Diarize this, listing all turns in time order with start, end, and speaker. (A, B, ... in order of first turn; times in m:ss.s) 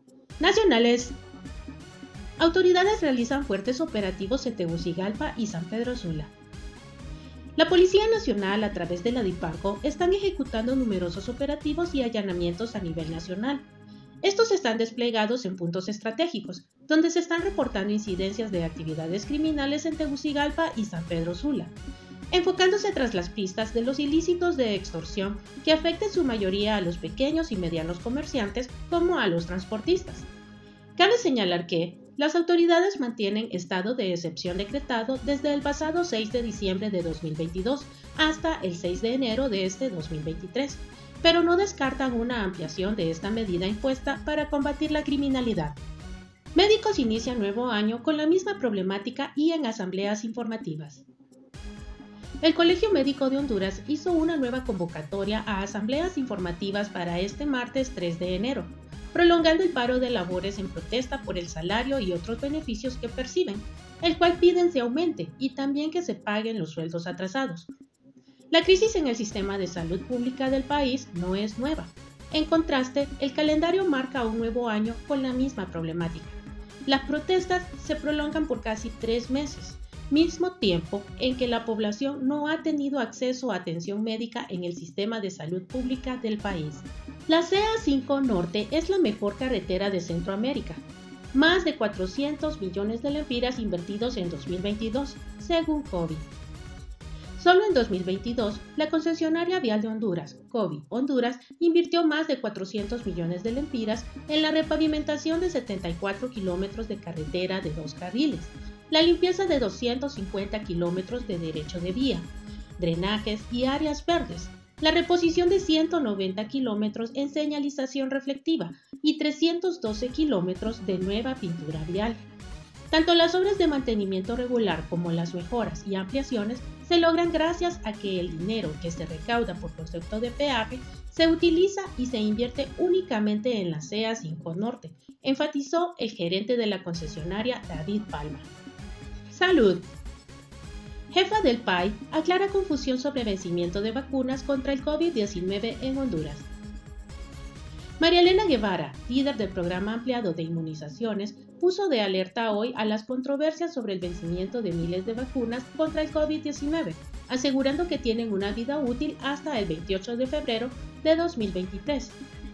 0:00.4-0:01.2 A
0:02.4-0:06.3 A
0:07.6-0:13.6 A
0:14.2-0:21.8 A
0:22.3-0:30.3 A
0:31.0-0:45.8 A
0:46.6-0:51.0 A
0:52.4-1:07.7 A
1:08.5-1:36.3 A
1:37.4-2:02.2 A
2:02.9-2:18.5 A
2:19.3-2:19.9 A
2:21.1-2:26.5 A
2:28.0-2:42.2 A